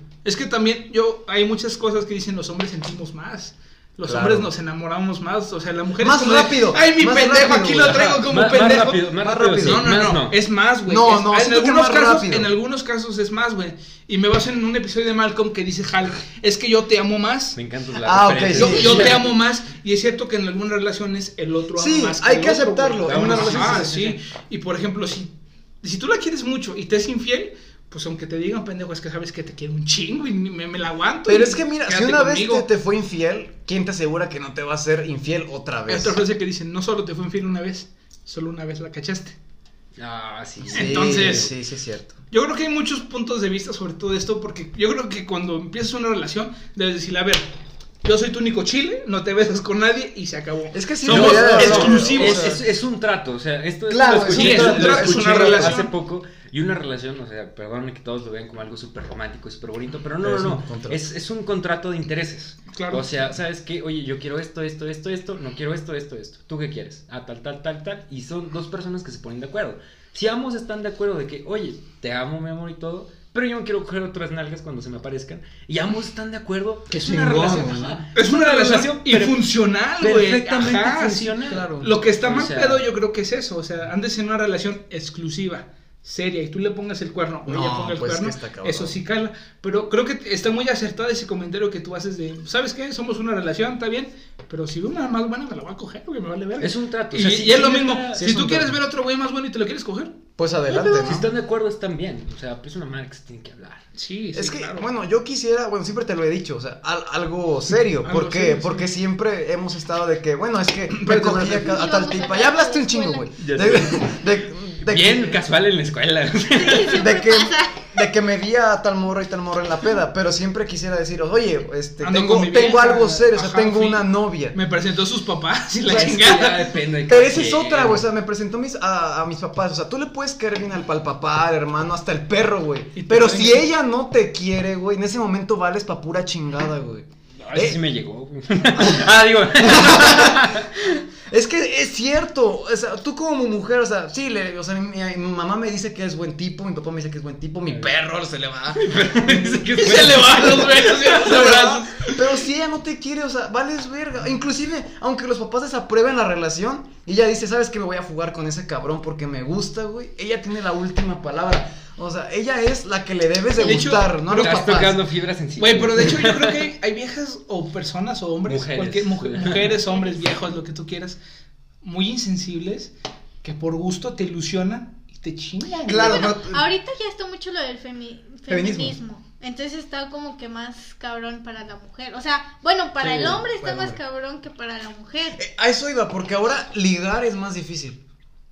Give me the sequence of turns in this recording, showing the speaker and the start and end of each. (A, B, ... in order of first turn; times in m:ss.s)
0:00.2-0:17.6 A
0:04.0-0:04.5 B
0:06.0-0:08.1 B
0:07.8-0:10.4 C
0:09.2-0:09.9 B
0:10.9-0:12.5 B
0:17.6-0:19.3 C
0:18.0-0:19.2 B
0:18.5-0:25.3 A
0:21.8-0:23.9 B
0:23.0-0:24.2 C
0:25.8-0:32.6 A
0:31.3-0:36.2 B
0:35.9-0:39.4 A
0:40.0-0:41.5 C
0:40.7-0:42.2 B
0:40.7-0:41.5 A
0:42.3-0:47.5 A
0:48.0-0:52.6 A
0:50.7-0:52.6 B
0:51.0-1:19.4 C
0:53.9-0:55.8 B
0:54.2-0:55.9 A
1:00.2-1:01.0 B
1:02.7-1:03.1 A
1:16.9-1:18.0 B
1:18.1-1:40.2 A
1:20.0-1:22.8 C
1:21.5-1:21.9 B
1:27.4-1:29.0 B
1:36.6-1:38.3 C
1:38.2-1:38.8 B
1:40.4-1:41.3 B
1:40.7-1:43.8 C
1:44.0-1:44.9 A
1:44.3-1:55.4 B
1:48.0-1:48.9 A
1:50.9-1:51.8 A
1:51.6-1:53.3 D
1:53.4-1:54.0 C
1:54.8-1:57.0 C
1:56.5-1:57.9 D
1:56.9-2:04.6 B
2:02.0-2:06.7 A
2:05.9-2:08.1 C
2:05.9-2:06.2 B
2:07.1-2:17.8 B
2:13.0-2:13.7 A
2:17.4-2:20.8 C
2:18.8-2:45.0 B
2:28.7-2:31.7 C
2:29.8-2:32.1 A
2:43.6-2:44.8 A
2:44.3-2:46.7 C
2:45.6-2:51.2 A
2:48.5-2:49.8 C
2:49.9-2:50.6 D
2:51.8-2:52.9 A
2:53.4-2:56.3 A
2:55.8-2:56.6 B
2:56.0-3:05.4 D
2:58.5-2:59.0 B
3:03.0-3:03.4 C
3:03.6-3:04.0 B
3:05.4-3:08.0 B